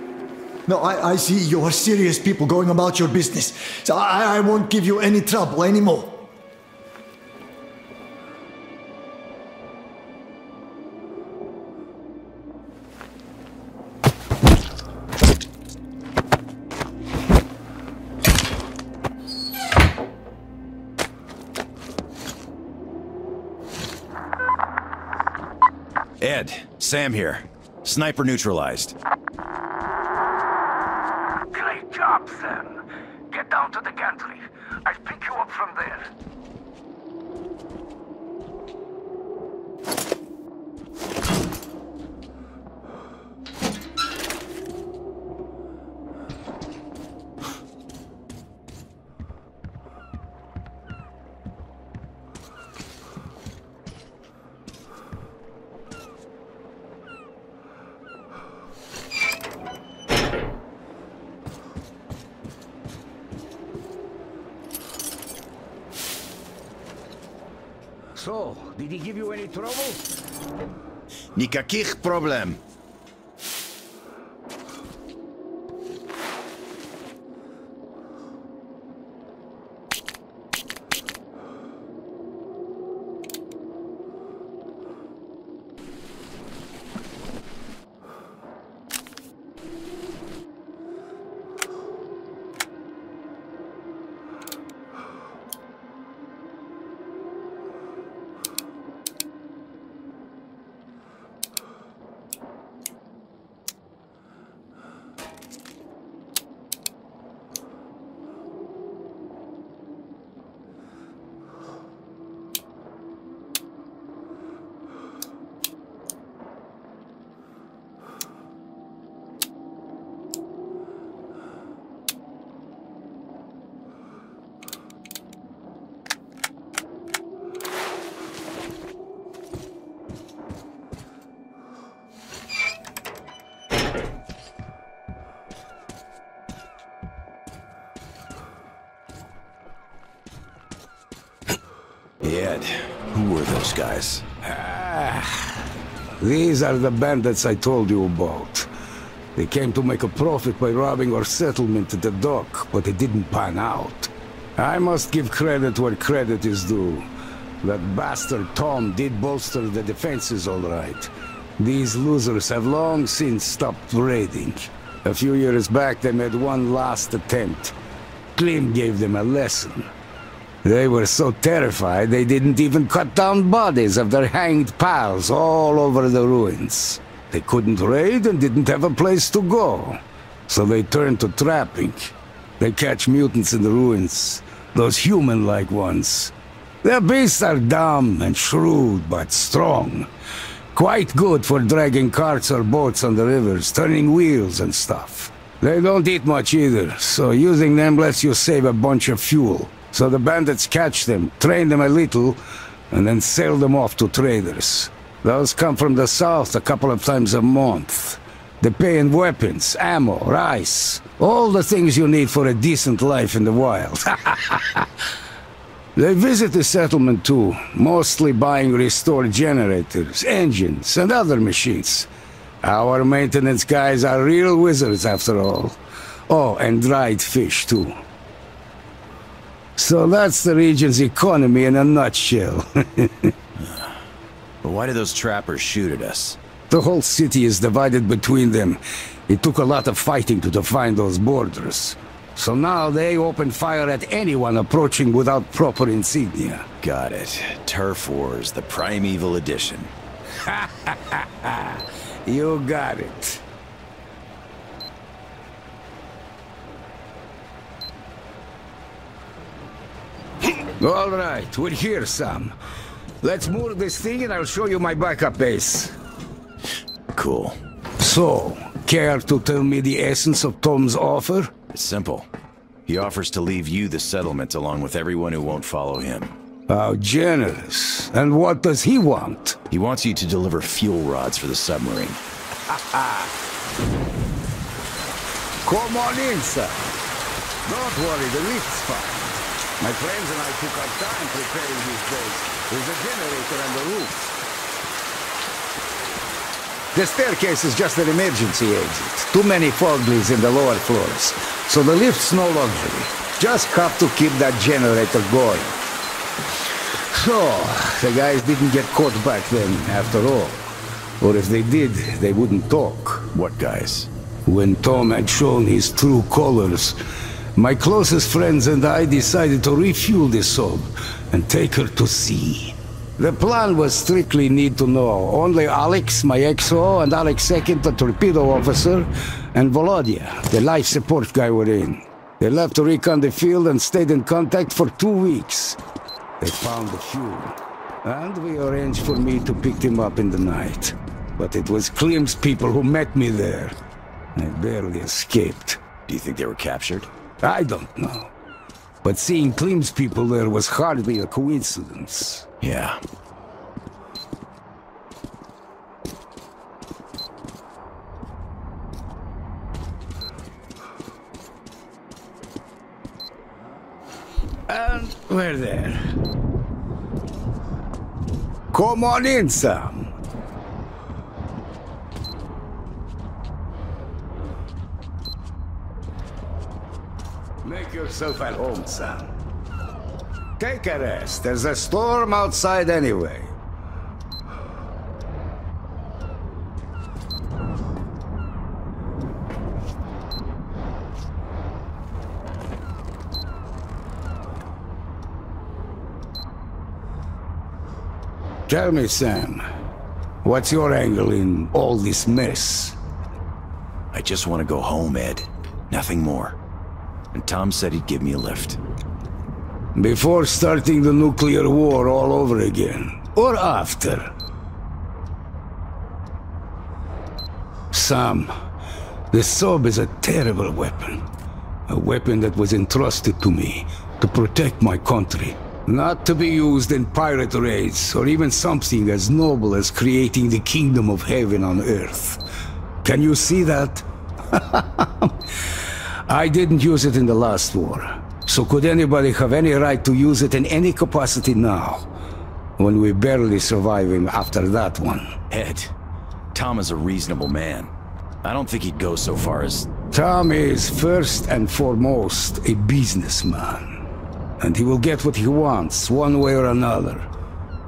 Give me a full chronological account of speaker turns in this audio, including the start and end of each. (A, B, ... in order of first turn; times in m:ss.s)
0:00.7-0:06.2 A
0:26.2-0:29.0 B
0:31.5-0:36.1 C
1:08.2-1:10.0 C
1:11.4-1:12.6 B
2:22.2-2:24.3 B
2:24.4-2:25.6 C
2:26.2-2:28.7 C
2:29.4-2:37.1 C
2:37.6-2:47.7 C
2:48.4-2:49.9 C
2:50.6-3:10.1 C
3:10.7-3:35.1 C
3:36.0-3:42.1 C
3:42.6-3:48.0 C
3:49.8-3:53.3 C
3:53.6-3:54.0 B
3:54.6-3:56.4 B
3:56.7-4:06.7 C
4:06.8-4:09.9 B
4:10.4-4:13.4 C
4:20.8-4:22.6 C
4:23.2-4:26.0 C
4:27.1-4:27.6 B
4:28.0-4:31.5 C
4:31.7-4:32.3 B
4:32.9-4:36.3 B
4:36.7-4:39.6 C
4:39.7-4:42.2 B
4:42.7-4:43.3 C
4:45.6-4:46.9 C
4:47.7-4:54.3 C
4:56.9-5:05.8 C
5:07.1-5:13.3 C
5:13.3-5:14.1 B
5:14.5-5:17.0 C
5:17.6-5:35.8 C
5:36.4-5:43.8 C
5:44.4-5:45.8 C
5:46.1-5:47.1 B
5:47.4-5:48.3 C
5:49.0-5:52.5 C
5:52.6-5:53.0 B
6:04.7-6:06.1 C
6:08.7-6:10.1 C
6:17.6-6:19.3 C
6:20.6-6:23.5 C
6:38.7-6:39.6 C
6:40.4-6:43.0 C
6:44.1-6:46.6 B
6:47.3-6:48.8 B
6:50.0-6:54.3 C
6:57.9-6:58.6 C
6:59.3-7:01.3 C
7:01.9-7:12.4 C
7:13.0-7:22.1 C
7:22.8-7:25.4 C
7:25.5-7:25.9 B
7:26.5-7:27.9 B
7:28.4-7:29.9 B
7:30.1-7:34.0 C
7:34.6-7:37.3 C